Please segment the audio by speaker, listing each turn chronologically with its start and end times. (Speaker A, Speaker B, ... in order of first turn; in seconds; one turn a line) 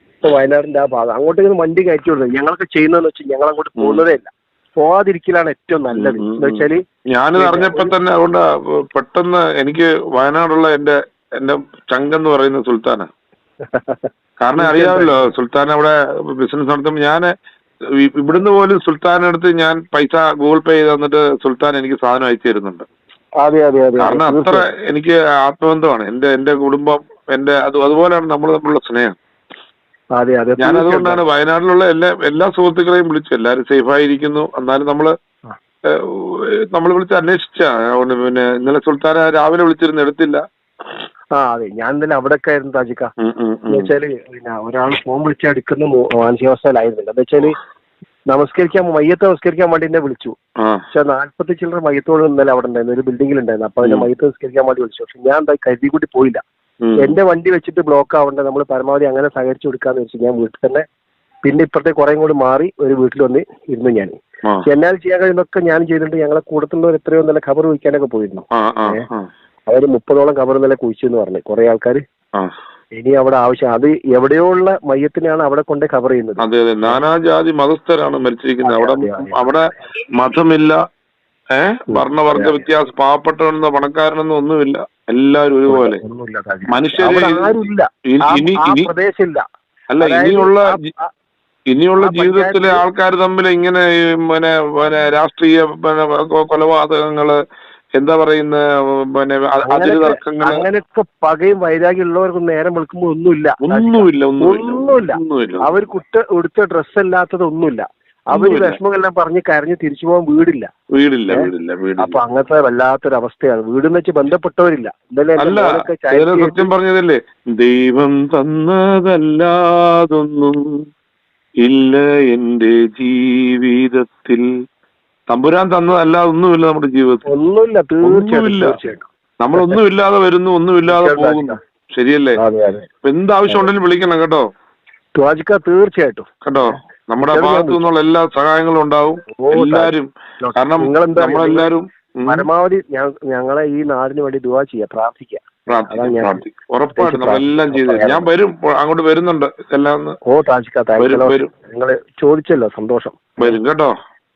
Speaker A: 0.2-6.8
Speaker B: 3.8-4.0
Speaker B: 5.9-13.1
Speaker A: 7.3-7.9
Speaker A: 13.6-15.3
Speaker B: 14.4-17.2
Speaker B: 18.0-22.8
Speaker A: 23.4-24.7
Speaker B: 24.0-29.1
Speaker A: 30.2-31.2
Speaker B: 30.6-35.1
Speaker B: 35.9-40.4
Speaker A: 41.3-43.1
Speaker B: 43.2-43.9
Speaker A: 43.7-47.5
Speaker A: 48.3-50.4
Speaker A: 50.9-56.4
Speaker B: 56.8-57.1
Speaker A: 57.0-60.8
Speaker A: 61.4-69.0
Speaker B: 68.5-69.3
Speaker A: 69.7-72.0
Speaker A: 72.9-77.0
Speaker B: 76.4-79.6
Speaker A: 78.6-79.8
Speaker B: 80.2-80.8
Speaker B: 81.5-86.0
Speaker A: 81.9-82.7
Speaker A: 85.7-89.4
Speaker B: 86.7-87.5
Speaker B: 88.1-88.9
Speaker B: 89.9-90.7
Speaker A: 90.0-91.1
Speaker B: 91.7-97.4
Speaker A: 92.0-92.8
Speaker B: 98.0-100.6
Speaker A: 99.6-110.7
Speaker B: 103.6-106.0
Speaker B: 108.3-108.8
Speaker B: 111.0-112.2
Speaker A: 111.3-116.7
Speaker B: 115.4-120.7
Speaker B: 121.6-124.5
Speaker B: 125.3-127.2
Speaker A: 127.3-129.8
Speaker B: 128.0-128.8
Speaker B: 129.4-132.4
Speaker A: 130.9-131.6
Speaker A: 132.4-132.9
Speaker B: 133.0-134.4
Speaker A: 135.2-137.8
Speaker B: 136.4-142.5
Speaker A: 139.4-141.7
Speaker A: 142.3-146.4
Speaker B: 145.7-150.2
Speaker A: 146.9-148.3
Speaker A: 150.2-153.6
Speaker B: 151.0-151.5
Speaker B: 153.4-153.9